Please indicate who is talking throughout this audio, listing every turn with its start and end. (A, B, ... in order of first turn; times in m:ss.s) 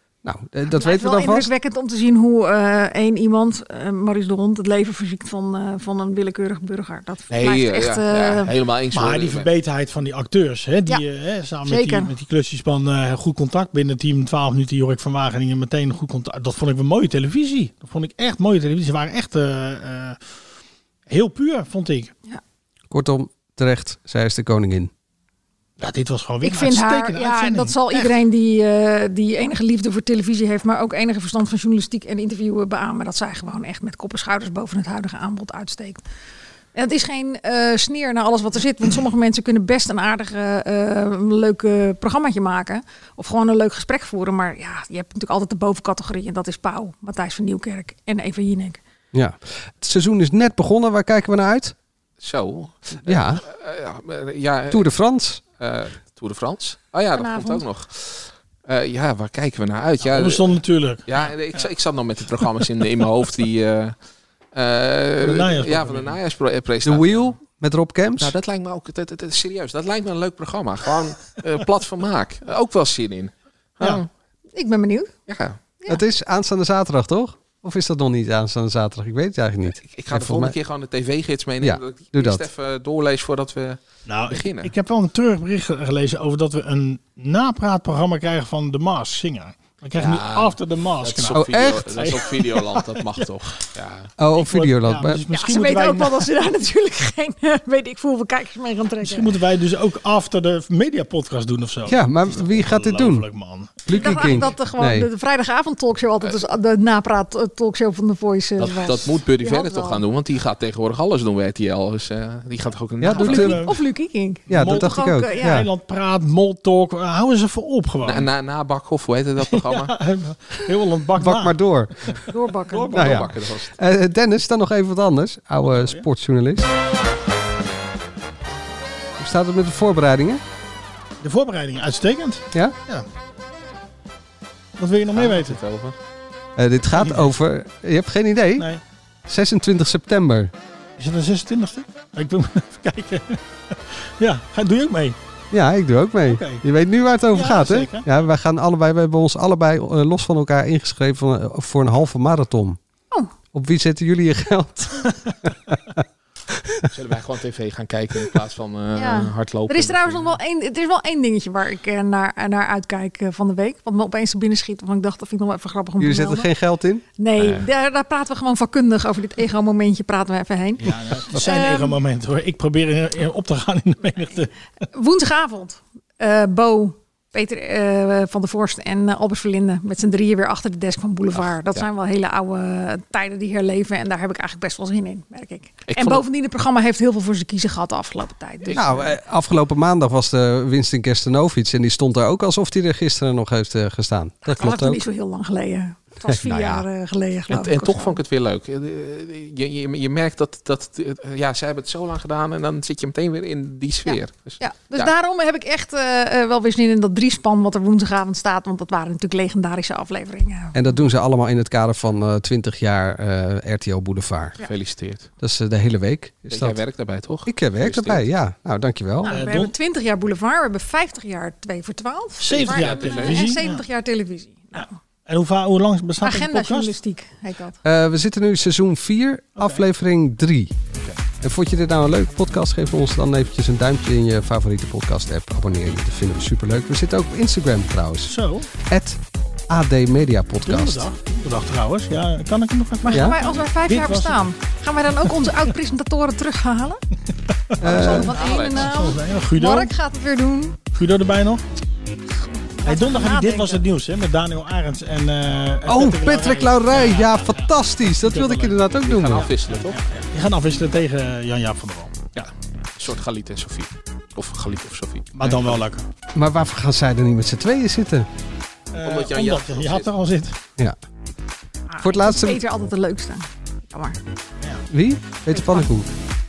0:00.2-0:01.5 A
0:00.7-0:08.5 B
0:07.3-0:09.5 C
0:08.9-0:20.2 D
0:11.6-0:12.1 B
0:21.1-0:22.1 D
0:22.9-0:24.9 A
0:25.8-0:28.1 D
0:26.4-0:36.0 B
0:36.7-0:48.8 B
0:49.1-0:51.7 A
0:52.2-0:54.9 C
0:53.0-0:53.4 A
0:54.7-0:55.4 A
0:55.6-1:04.0 C
0:57.2-0:57.6 B
1:00.0-1:01.3 D
1:04.5-1:07.4 C
1:05.2-1:06.2 D
1:06.8-1:08.4 A
1:08.2-1:14.1 C
1:14.5-1:15.1 B
1:15.3-1:15.6 C
1:15.9-1:20.6 A
1:19.8-1:24.7 C
1:21.6-1:22.5 A
1:24.1-1:33.2 D
1:30.0-1:34.1 C
1:31.3-1:32.0 A
1:34.2-1:35.2 A
1:34.3-1:36.3 D
1:35.3-1:39.4 B
1:39.0-1:44.5 D
1:41.9-1:43.3 A
1:43.8-1:45.1 A
1:43.9-1:50.0 B
1:48.6-1:53.6 C
1:53.0-1:53.7 A
1:53.2-1:53.7 D
1:53.2-1:55.5 B
1:54.5-1:55.7 A
1:54.5-1:58.3 D
1:58.0-1:59.9 C
1:59.5-2:01.6 D
2:01.2-2:02.2 A
2:02.3-2:03.1 B
2:02.7-2:03.2 D
2:02.9-2:03.7 C
2:02.9-2:06.7 A
2:05.7-2:06.0 D
2:09.2-2:10.4 A
2:11.2-2:13.0 D
2:14.8-2:15.6 D
2:15.1-2:15.9 C
2:16.6-2:18.7 A
2:17.0-2:17.3 D
2:19.3-2:20.5 A
2:21.0-2:25.2 D
2:25.5-2:32.8 A
2:26.3-2:26.6 D
2:27.3-2:28.0 D
2:33.5-2:36.0 A
2:36.5-2:36.9 A
2:36.9-2:40.4 C
2:39.0-2:46.5 B
2:46.0-2:47.0 A
2:47.2-2:52.0 B
2:47.4-2:47.6 C
2:50.8-2:54.5 D
2:54.9-3:09.1 B
3:01.3-3:01.8 C
3:05.9-3:06.2 C
3:08.7-3:15.0 A
3:14.4-3:18.2 B
3:16.2-3:16.8 A
3:17.5-3:25.1 C
3:24.0-3:30.8 B
3:30.7-3:34.6 A
3:34.6-3:35.3 C
3:35.4-3:36.8 A
3:36.5-3:38.3 C
3:37.4-3:39.4 A
3:39.2-3:45.0 B
3:39.3-3:39.7 D
3:42.4-3:43.8 D
3:42.5-3:43.5 C
3:45.3-3:46.9 D
3:46.2-3:47.8 B
3:47.8-3:50.8 A
3:49.6-3:49.8 D
3:50.9-3:51.2 D
3:51.4-4:01.0 A
3:58.2-3:58.7 D
4:00.6-4:04.4 D
4:03.0-4:07.0 B
4:03.1-4:03.4 A
4:07.5-4:09.9 D
4:07.8-4:08.3 A
4:07.8-4:10.8 B
4:08.3-4:08.9 C
4:10.9-4:11.6 D
4:12.8-4:13.8 B
4:12.8-4:22.4 D
4:15.9-4:19.5 A
4:19.1-4:20.0 C
4:22.4-4:25.8 C
4:25.3-4:26.0 D
4:26.3-4:28.3 A
4:28.9-4:30.6 D
4:29.0-4:30.1 C
4:31.9-4:34.2 B
4:32.0-4:32.6 A
4:34.9-4:36.1 A